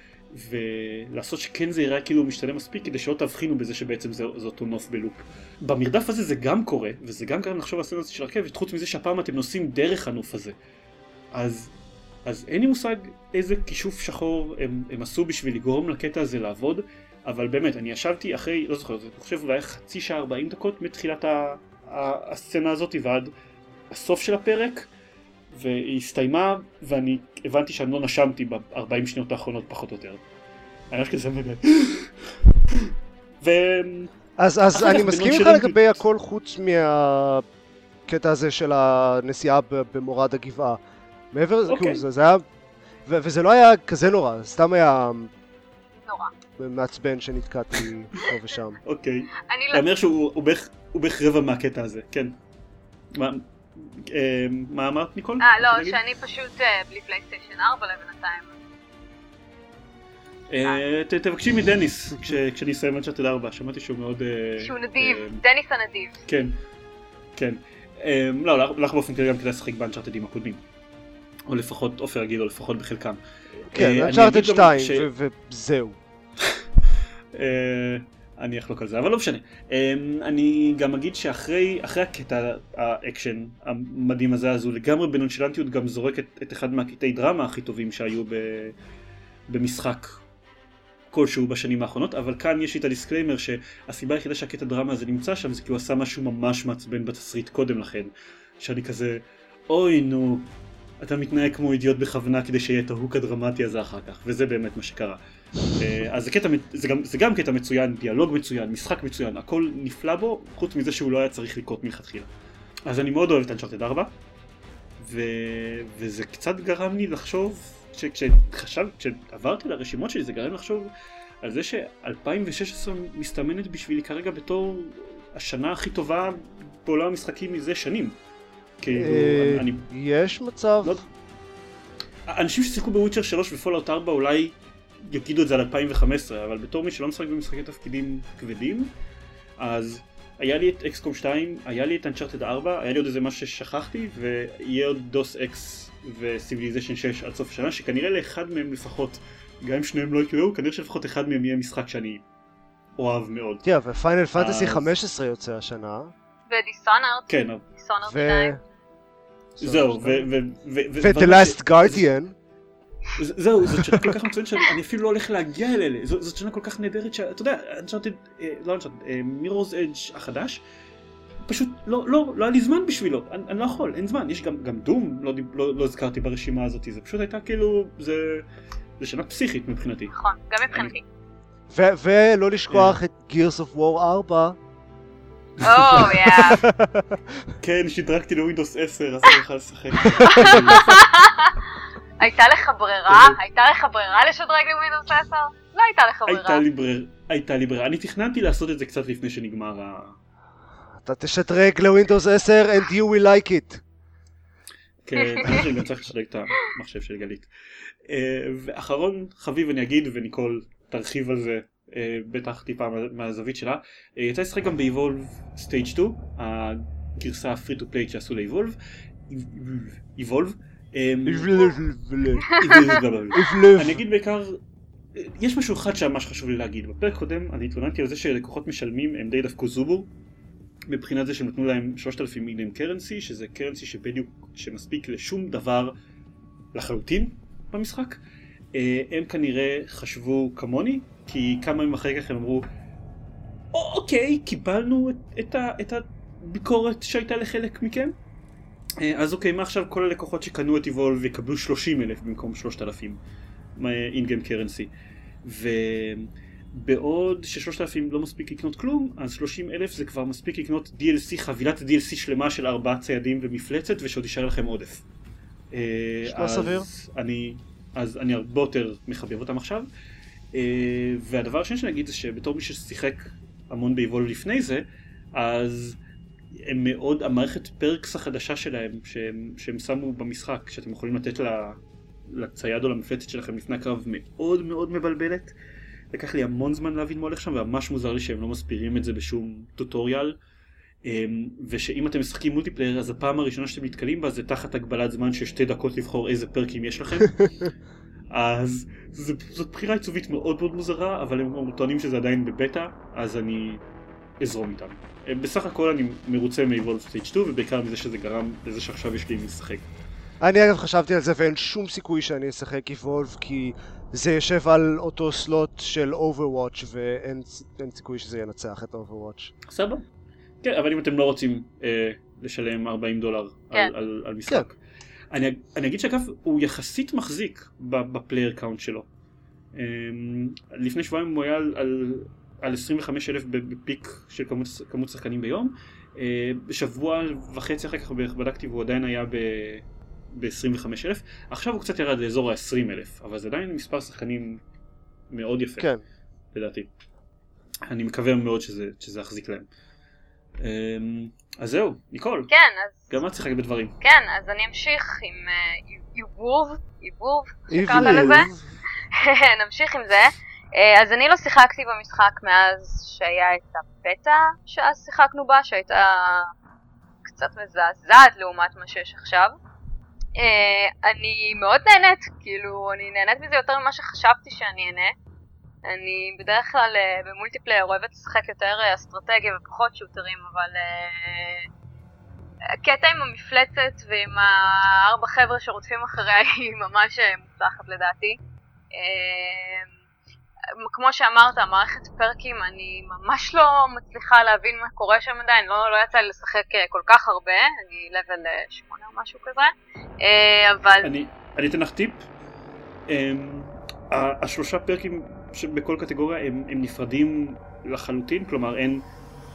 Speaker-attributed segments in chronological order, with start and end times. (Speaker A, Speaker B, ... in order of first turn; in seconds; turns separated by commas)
Speaker A: 0.3-10.6, Speaker A: 11.3-11.7, Speaker A: 12.2-23.3, Speaker A: 23.9-24.9, Speaker A: 25.5-30.2, Speaker A: 30.9-34.1, Speaker B: 34.4-37.4, Speaker A: 34.7-36.0, Speaker B: 38.1-40.8, Speaker B: 41.3-42.4, Speaker A: 41.7-42.0, Speaker B: 43.1-45.3, Speaker C: 46.0-46.3, Speaker B: 46.6-48.8, Speaker A: 48.8-52.4, Speaker C: 49.5-49.9, Speaker A: 53.1-56.0, Speaker C: 55.4-58.6, Speaker A: 60.5-65.4, Speaker C: 64.6-66.2, Speaker A: 66.3-66.5, Speaker A: 67.4-70.6, Speaker A: 71.5-73.2, Speaker B: 73.7-76.0, Speaker A: 73.7-75.1, Speaker A: 77.3-88.8, Speaker A: 89.5-90.2, Speaker A: 91.1-100.5, Speaker A: 101.0-105.2, Speaker A: 105.7-112.3, Speaker A: 112.9-114.1, Speaker A: 115.0-120.9, Speaker A: 121.4-128.2, Speaker A: 128.8-129.9, Speaker B: 128.9-130.9, Speaker A: 132.3-134.5, Speaker A: 135.1-138.9, Speaker A: 139.6-152.2, Speaker A: 153.0-153.7, Speaker B: 153.6-156.1, Speaker A: 154.4-154.9, Speaker C: 156.5-158.6, Speaker A: 157.3-157.6, Speaker B: 158.1-158.6, Speaker A: 159.6-162.1, Speaker B: 159.6-160.3, Speaker B: 161.0-162.4, Speaker A: 163.2-170.6, Speaker A: 171.5-178.4, Speaker A: 179.0-180.1, Speaker C: 180.1-181.0, Speaker B: 181.7-184.6, Speaker A: 182.7-183.0, Speaker A: 185.6-186.4, Speaker C: 185.6-186.6, Speaker B: 186.4-187.2, Speaker A: 187.6-191.1, Speaker B: 190.0-190.8, Speaker C: 190.2-196.6, Speaker A: 193.1-193.4, Speaker A: 196.2-200.2, Speaker B: 201.0-203.8, Speaker A: 205.0-207.5, Speaker C: 205.2-205.6, Speaker A: 208.1-218.8, Speaker A: 219.3-221.7, Speaker B: 221.2-222.6, Speaker A: 222.5-224.6, Speaker C: 222.5-222.9, Speaker B: 223.3-224.0, Speaker A: 225.2-230.1, Speaker A: 230.9-235.9, Speaker A: 236.7-238.2, Speaker A: 238.7-242.7, Speaker A: 243.7-248.2, Speaker A: 249.0-253.2, Speaker A: 253.8-254.9, Speaker A: 255.4-265.0, Speaker A: 265.7-269.9, Speaker B: 266.3-266.9, Speaker A: 270.5-276.0, Speaker A: 276.6-285.5, Speaker A: 286.1-290.4, Speaker A: 291.0-297.4, Speaker A: 298.3-303.8, Speaker A: 304.4-309.9, Speaker B: 310.4-319.5, Speaker A: 319.7-320.0, Speaker A: 320.6-324.8, Speaker A: 325.3-329.1, Speaker A: 329.7-344.6, Speaker A: 345.3-345.9, Speaker A: 346.5-346.9, Speaker A: 347.9-349.7, Speaker A: 350.6-352.5, Speaker C: 352.5-353.1, Speaker A: 353.1-353.9, Speaker C: 354.0-358.5, Speaker B: 357.7-358.6, Speaker A: 357.9-358.4, Speaker C: 359.1-366.5, Speaker C: 367.2-369.5, Speaker C: 370.4-375.1, Speaker C: 375.9-381.7, Speaker C: 382.8-388.4, Speaker C: 388.9-389.9, Speaker C: 390.8-401.1, Speaker A: 401.0-402.2, Speaker A: 403.1-409.0